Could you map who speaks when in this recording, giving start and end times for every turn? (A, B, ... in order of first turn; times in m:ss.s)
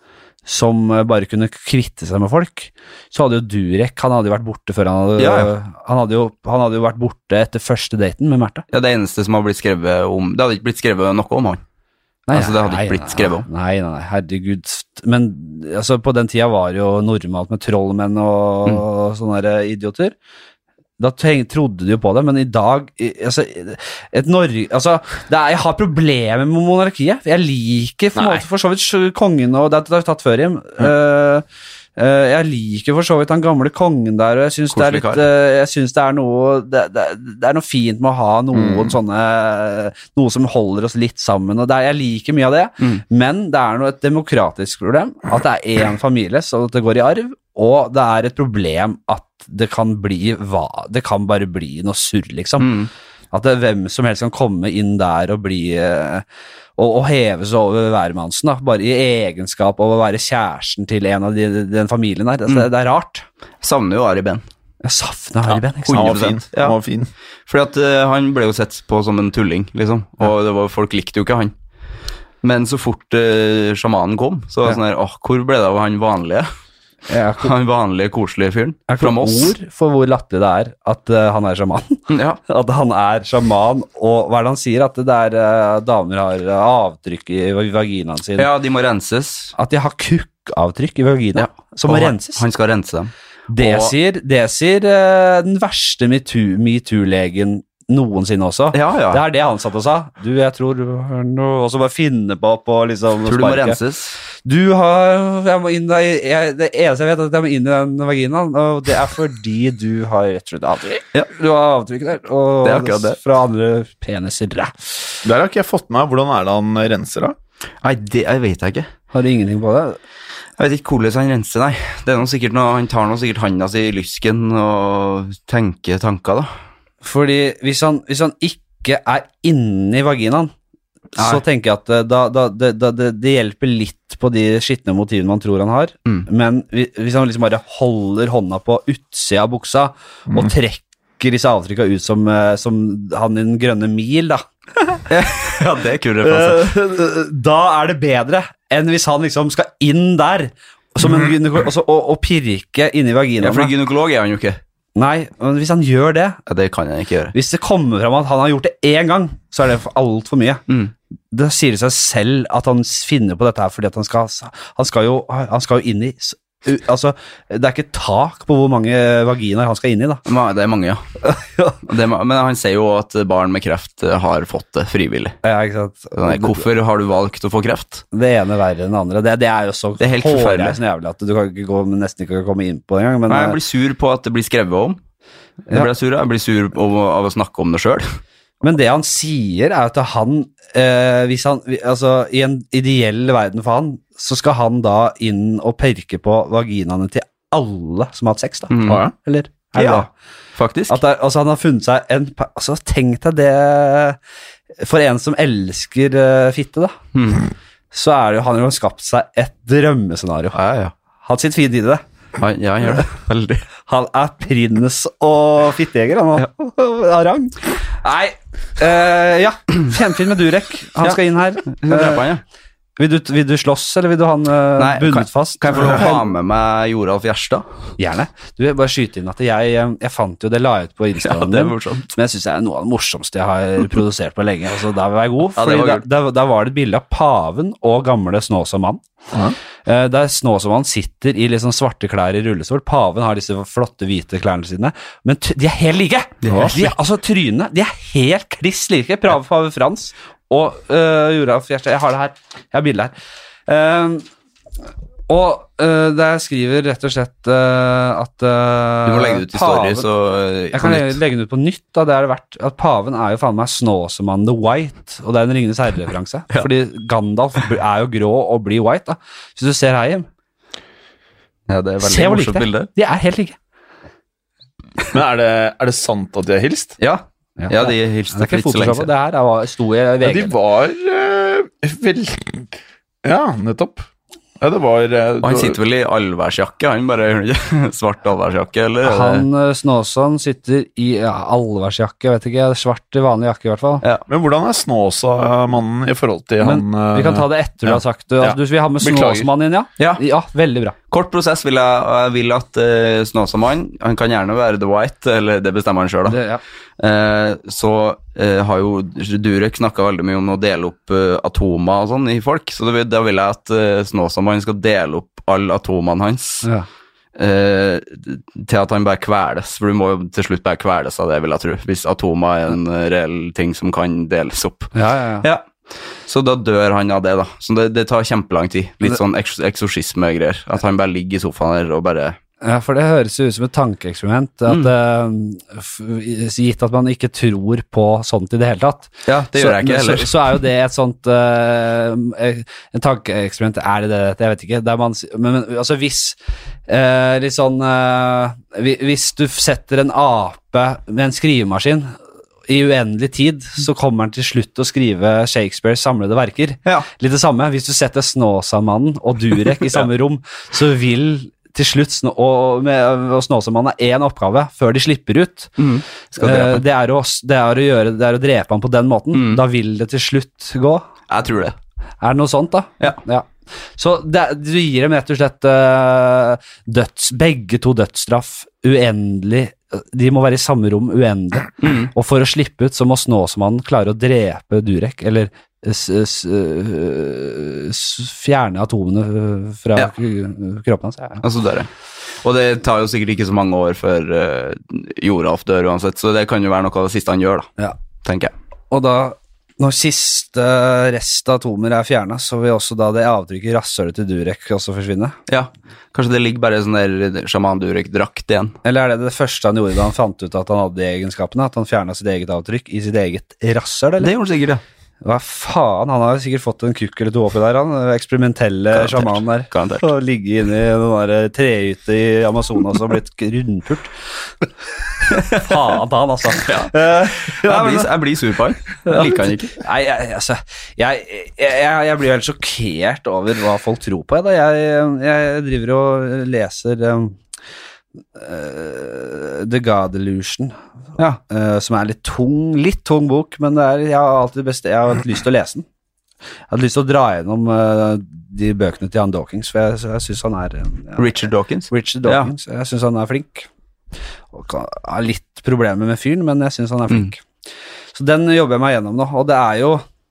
0:00.4-0:08.6 A
0:05.2-0:05.5 B
0:08.7-0:11.6 B
0:12.3-0:20.1 A
0:12.3-0:13.4 B
0:21.0-0:31.4 A
0:32.0-0:52.8 A
0:34.7-0:35.2 B
0:38.5-0:38.9 C
0:52.6-0:52.9 B
0:53.3-0:56.2 A
0:56.8-1:03.2 A
1:03.6-1:04.4 B
1:04.8-1:06.3 A
1:05.8-1:06.8 B
1:05.9-1:07.1 C
1:07.5-1:11.5 B
1:12.4-1:16.5 B
1:17.1-1:17.5 A
1:17.4-1:19.5 B
1:18.9-1:28.5 A
1:22.1-1:22.4 B
1:28.4-1:29.5 B
1:29.6-1:32.4 A
1:31.4-1:33.9 B
1:33.5-1:43.8 A
1:38.7-1:39.2 B
1:43.2-1:44.2 B
1:44.4-1:54.9 A
1:52.6-1:53.2 B
1:55.2-1:57.4 C
1:57.8-1:58.9 B
1:59.1-2:00.0 A
2:00.6-2:06.5 B
2:07.0-2:10.5 A
2:11.2-2:25.0 A
2:11.2-2:11.4 B
2:25.1-2:26.7 B
2:26.2-2:33.7 A
2:33.4-2:34.6 B
2:35.0-2:36.4 A
2:36.5-2:37.3 B
2:37.3-2:40.6 A
2:40.7-2:40.9 B
2:41.3-2:50.2 A
2:50.2-2:51.0 B
2:51.2-2:51.8 A
2:51.8-2:55.4 B
2:55.4-2:56.6 A
2:56.1-2:58.0 B
2:58.1-3:03.6 A
3:00.0-3:00.8 B
3:03.3-3:05.0 B
3:05.7-3:08.0 B
3:08.6-3:20.1 A
3:18.7-3:19.0 B
3:18.8-3:19.1 C
3:19.7-3:21.0 B
3:20.9-3:24.2 A
3:24.8-3:27.0 A
3:27.1-3:27.4 B
3:27.9-3:30.6 A
3:30.5-3:30.9 B
3:31.2-3:32.0 A
3:32.4-3:33.6 B
3:33.8-3:42.3 A
3:41.0-3:42.4 B
3:43.0-3:46.3 A
3:44.8-3:47.7 B
3:48.0-3:59.0 A
3:51.2-3:52.1 B
3:55.5-3:56.0 B
3:59.8-4:13.1 A
4:06.4-4:06.9 B
4:06.5-4:06.7 C
4:13.7-4:14.3 A
4:15.3-4:20.1 A
4:19.0-4:21.2 B
4:20.7-4:30.3 A
4:31.7-4:32.9 B
4:32.0-4:33.6 A
4:35.1-4:37.0 C
4:37.0-4:39.1 B
4:37.6-4:40.6 A
4:40.2-4:42.6 C
4:43.2-4:44.1 C
4:44.6-4:45.8 C
4:45.4-4:49.4 B
4:49.0-4:54.0 A
4:54.3-4:59.5 C
4:56.6-5:00.9 A
5:01.1-5:06.4 B
5:06.3-5:06.6 A
5:07.0-5:16.7 B
5:17.4-5:25.6 B
5:24.9-5:25.4 A
5:26.2-5:32.4 B
5:32.6-5:52.1 A
5:39.2-5:40.4 B
5:52.7-6:05.8 A
6:05.8-6:06.8 B
6:06.4-6:11.1 A
6:09.3-6:09.6 B
6:11.3-6:11.8 B
6:12.2-6:31.4 A
6:21.8-6:22.1 B
6:31.4-6:31.9 B
6:32.4-6:37.7 B
6:38.2-6:38.5 B
6:38.9-6:45.4 A
6:45.5-6:48.8 B
6:48.8-6:54.3 A
6:54.2-6:54.8 B
6:55.2-7:04.1 A
6:58.9-7:00.1 B
7:05.3-7:05.9 B
7:05.4-7:08.1 A
7:06.6-7:09.8 B
7:09.0-7:17.4 A
7:18.3-7:20.8 A
7:21.4-7:25.8 A
7:26.7-7:31.3 A
7:31.2-7:32.5 B
7:31.9-7:33.7 A
7:34.5-7:37.4 A
7:38.1-7:40.0 A